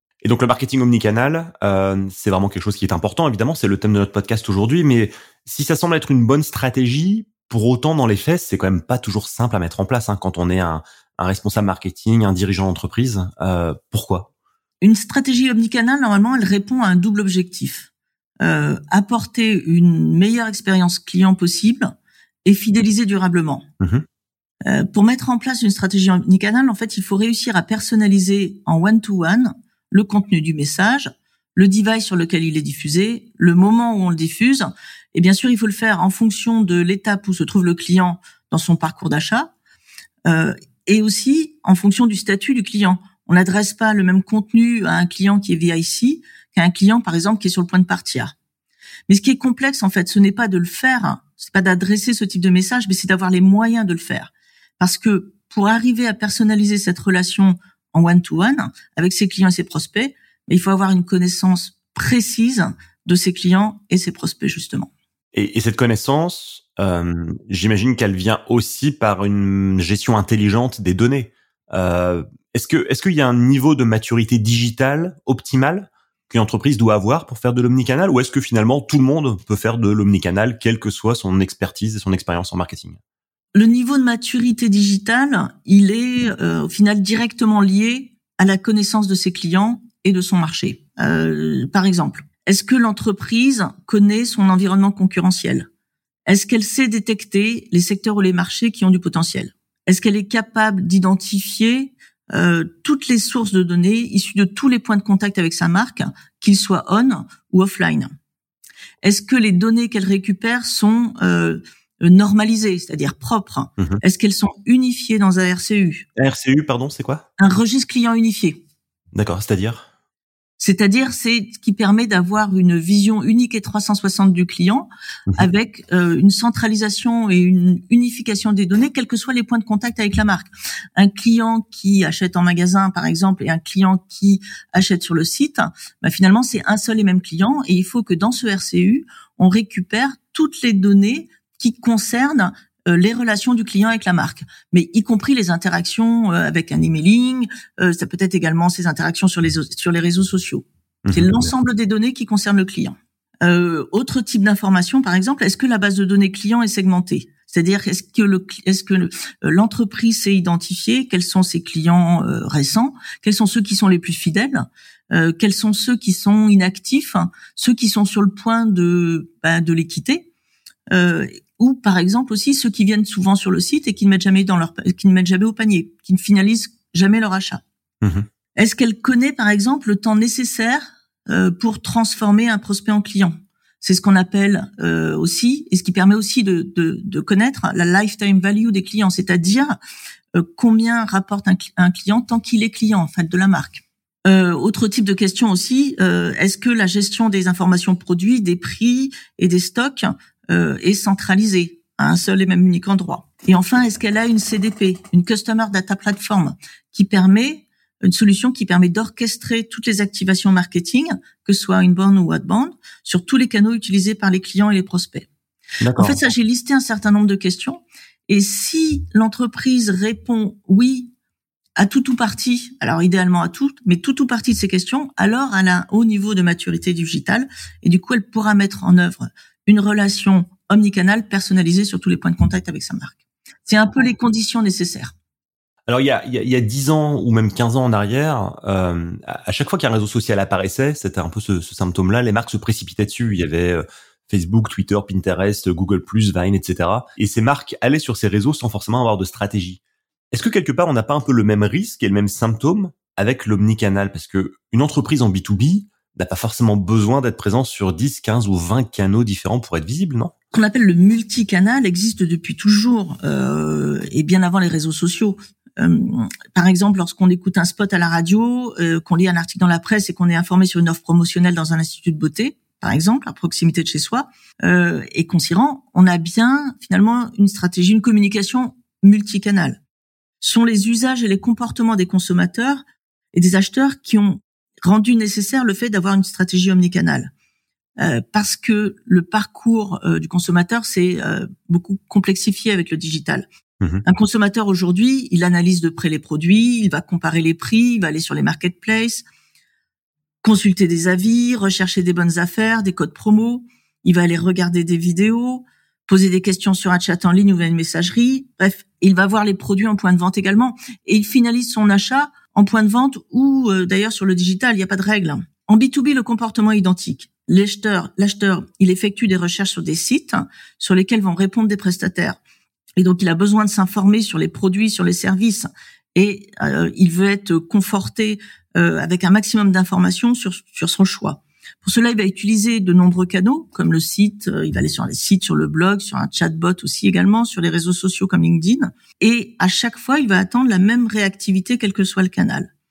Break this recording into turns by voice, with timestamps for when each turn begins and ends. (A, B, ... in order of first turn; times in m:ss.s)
0:00.2-0:14.3 A
0:14.8-0:17.9 B
0:18.4-0:21.9 B
0:22.4-0:23.6 B
0:23.8-0:24.0 A
0:24.6-0:39.5 B
0:40.2-0:48.3 B
0:49.1-1:04.9 B
1:05.3-1:23.0 A
1:23.5-1:35.7 B
1:36.3-1:48.1 B
1:49.0-1:56.1 B
1:56.2-1:57.3 A
1:57.4-1:58.6 B
1:59.1-1:59.9 A
2:00.6-2:50.3 B
2:31.0-2:31.5 A
2:50.9-2:57.6 B
2:58.0-2:58.3 A
2:58.6-3:09.7 B
3:10.3-3:35.3 B
3:35.8-3:36.2 A
3:36.0-3:41.1 B
3:41.8-3:55.1 B
3:55.9-4:09.8 A
4:10.3-4:20.3 A
4:20.5-4:39.8 B
4:40.4-4:47.3 B
4:48.0-4:53.4 B
4:54.0-4:59.2 B
5:00.4-5:22.4 B
5:23.0-5:42.7 B